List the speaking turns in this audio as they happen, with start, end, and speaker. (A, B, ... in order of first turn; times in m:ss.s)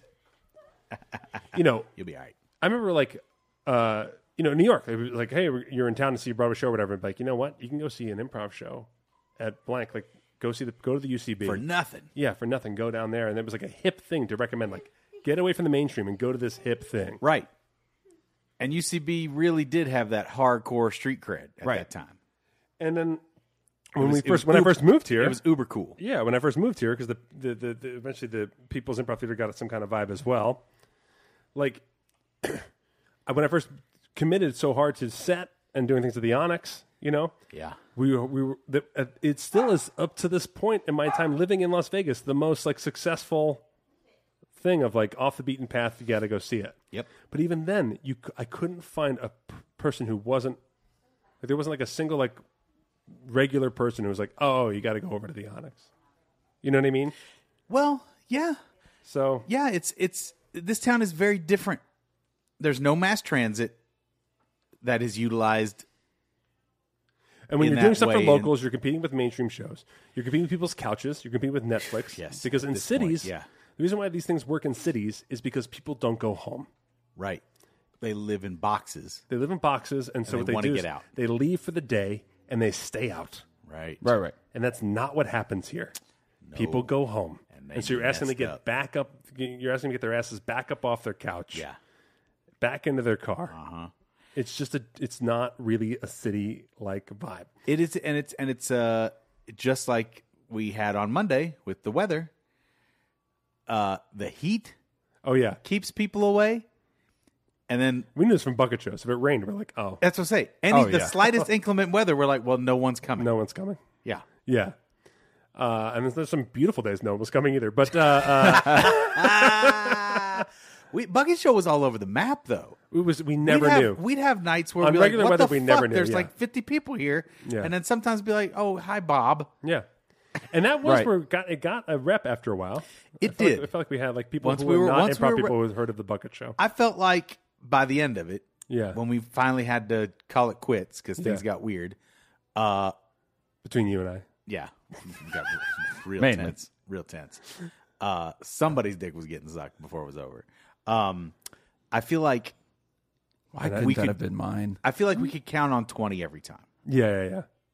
0:01.5-0:01.9 A
0:02.0-0:02.3 B
0:02.6-0:08.9 A
0:09.4-0:17.2 A
0:11.4-0:12.1 B
0:17.2-0:17.5 B
0:18.6-0:22.2 B
0:22.8-0:23.2 A
0:24.0-0:25.4 A
0:24.0-0:26.0 B
0:26.0-0:30.6 A
0:31.6-0:31.8 A
0:32.4-0:32.7 A
0:33.3-0:37.4 A
0:37.5-0:37.8 B
0:38.0-0:43.6 A
0:44.6-0:50.6 A
0:51.4-0:52.4 A
0:53.2-0:55.9 A
0:56.6-0:57.2 A
0:57.7-0:58.6 B
0:59.0-0:59.5 A
0:59.5-1:01.8 B
1:02.6-1:03.8 B
1:04.8-1:05.9 B
1:07.5-1:16.7 A
1:07.6-1:08.5 B
1:12.1-1:13.5 B
1:17.2-1:17.4 B
1:18.0-1:19.2 B
1:19.3-1:23.4 A
1:20.3-1:21.0 B
1:23.6-1:24.0 B
1:24.0-1:24.4 C
1:24.5-1:26.0 A
1:26.4-1:26.9 B
1:26.5-1:31.7 A
1:27.5-1:28.6 B
1:32.6-1:33.6 A
1:33.5-1:33.9 B
1:34.4-1:37.5 A
1:37.7-1:42.3 B
1:43.7-1:44.8 B
1:45.2-1:45.6 A
1:45.6-1:46.7 B
1:47.7-1:48.1 B
1:48.2-1:50.0 A
1:50.0-1:53.3 B
1:50.7-1:51.5 A
1:53.2-1:53.8 A
1:54.4-1:54.8 A
1:55.6-2:00.4 A
1:58.4-2:02.8 B
2:02.9-2:04.0 A
2:03.4-2:09.5 B
2:04.8-2:06.3 A
2:07.4-2:07.7 A
2:10.4-2:16.6 A
2:13.2-2:13.7 B
2:14.4-2:15.6 B
2:16.6-2:22.0 B
2:18.7-2:19.0 A
2:22.6-2:23.0 B
2:23.6-2:24.3 A
2:24.5-2:31.4 B
2:26.2-2:26.6 C
2:31.9-2:32.6 B
2:33.5-2:34.8 C
2:33.6-2:34.1 A
2:34.8-2:36.7 B
2:36.9-2:37.5 A